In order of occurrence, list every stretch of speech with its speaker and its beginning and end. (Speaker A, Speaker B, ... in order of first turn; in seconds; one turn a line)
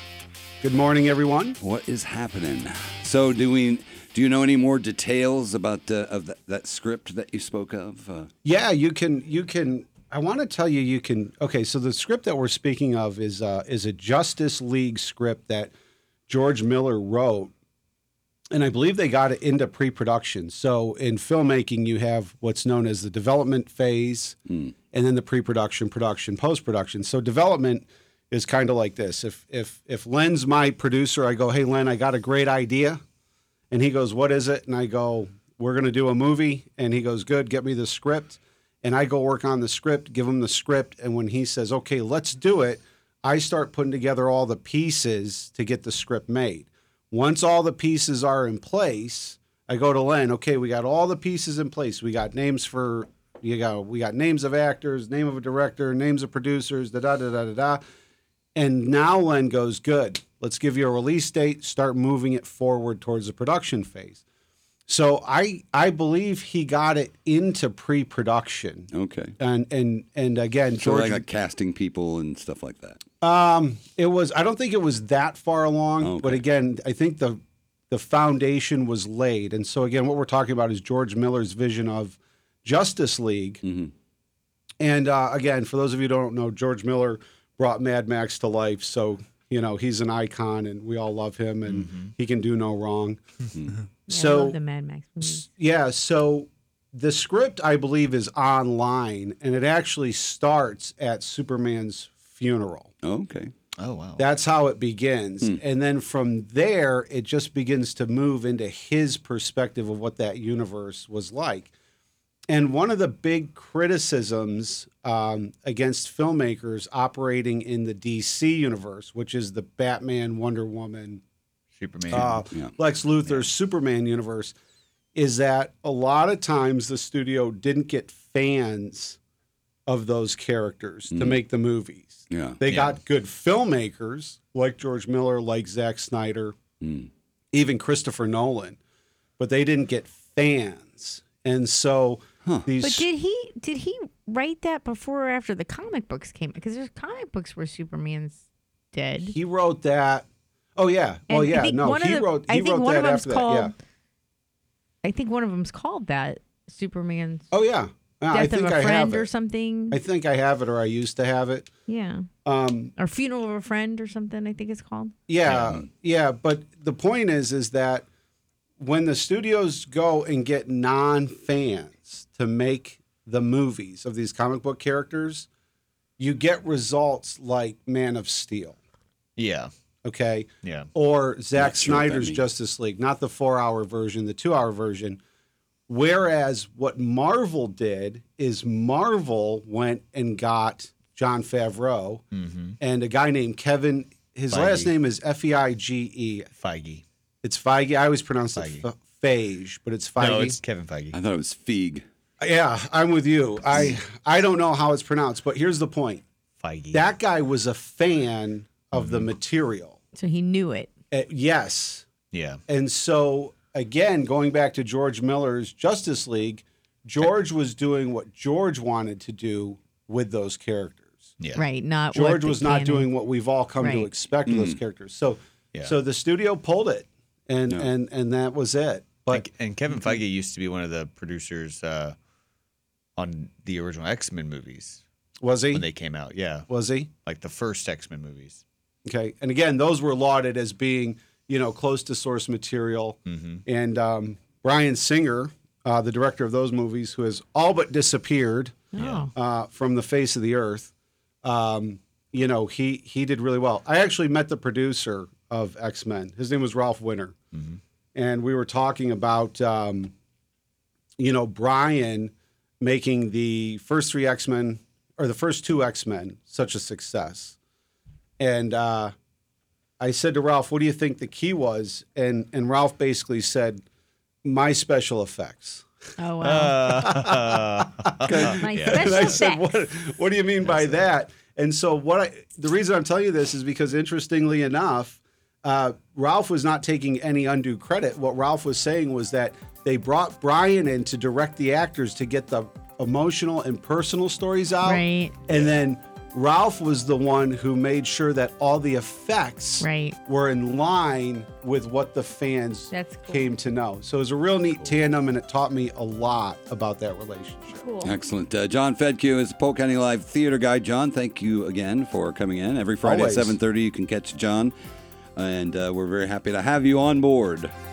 Speaker A: 0.6-1.6
Speaker B: 1.6-8.3
Speaker A: 8.4-15.7
Speaker A: 16.3-17.5
Speaker A: 18.5-24.4
Speaker A: 24.9-33.0
Speaker A: 33.7-57.8
Speaker A: 58.5-64.2
Speaker A: 64.9-71.2
Speaker B: 68.9-69.3
Speaker B: 70.7-73.0
Speaker A: 73.2-83.6
Speaker B: 76.0-76.4
Speaker B: 83.6-83.9
Speaker A: 84.8-93.2
Speaker C: 91.6-92.1
Speaker D: 94.1-95.5
Speaker A: 94.1-94.6
Speaker A: 95.2-102.9
Speaker B: 103.0-103.5
Speaker C: 103.8-104.3
Speaker A: 104.2-111.7
Speaker A: 112.5-121.2
Speaker C: 121.7-122.4
Speaker A: 122.1-124.5
Speaker B: 122.1-122.7
Speaker A: 125.1-129.2
Speaker A: 129.9-136.6
Speaker B: 131.1-131.4
Speaker B: 132.3-132.6
Speaker C: 132.7-133.0
Speaker B: 136.8-137.1
Speaker A: 137.5-138.8
Speaker A: 139.4-143.1
Speaker D: 142.8-148.4
Speaker D: 148.9-149.3
Speaker A: 149.2-150.2
Speaker A: 150.8-153.7
Speaker D: 151.3-153.7
Speaker D: 155.0-157.4
Speaker A: 157.5-159.3
Speaker D: 158.3-160.0
Speaker A: 159.9-161.7
Speaker D: 161.9-162.2
Speaker A: 162.4-162.9
Speaker D: 162.9-165.1
Speaker A: 165.3-168.0
Speaker B: 165.5-165.8
Speaker A: 168.8-175.5
Speaker A: 176.2-178.8
Speaker C: 179.4-179.7
Speaker A: 180.0-185.2
Speaker C: 180.6-180.9
Speaker B: 181.5-182.4
Speaker A: 185.9-192.2
Speaker C: 192.3-192.8
Speaker A: 192.8-196.5
Speaker C: 194.5-194.9
Speaker C: 196.6-197.0
Speaker A: 197.4-200.6
Speaker C: 198.5-198.9
Speaker C: 200.2-201.2
Speaker B: 201.1-202.1
Speaker A: 202.4-206.2
Speaker C: 206.6-207.0
Speaker A: 206.9-210.0
Speaker C: 208.9-209.3
Speaker D: 210.1-210.9
Speaker A: 211.1-212.1
Speaker C: 212.3-212.6
Speaker A: 212.7-221.3
Speaker D: 221.5-223.1
Speaker A: 222.1-229.5
Speaker D: 223.8-224.1
Speaker B: 224.4-224.8
Speaker C: 229.3-232.2
Speaker C: 233.2-235.0
Speaker A: 235.4-235.9
Speaker C: 235.7-236.7
Speaker A: 236.7-237.1
Speaker C: 237.2-238.6
Speaker A: 239.0-248.8
Speaker C: 243.2-243.6
Speaker D: 248.9-249.3
Speaker C: 249.0-249.3
Speaker A: 249.3-250.9
Speaker A: 251.4-257.3
Speaker C: 257.5-257.8
Speaker A: 258.1-260.1
Speaker A: 261.2-267.6
Speaker A: 268.4-269.1
Speaker A: 270.0-273.8
Speaker A: 274.4-275.8
Speaker D: 276.2-277.0
Speaker C: 276.4-279.4
Speaker A: 276.9-307.8
Speaker B: 278.3-278.6
Speaker D: 278.4-279.7
Speaker D: 294.8-295.4
Speaker D: 299.8-300.2
Speaker D: 302.9-303.5
Speaker D: 307.7-308.1
Speaker B: 308.0-314.7
Speaker A: 313.0-313.6
Speaker B: 315.4-317.7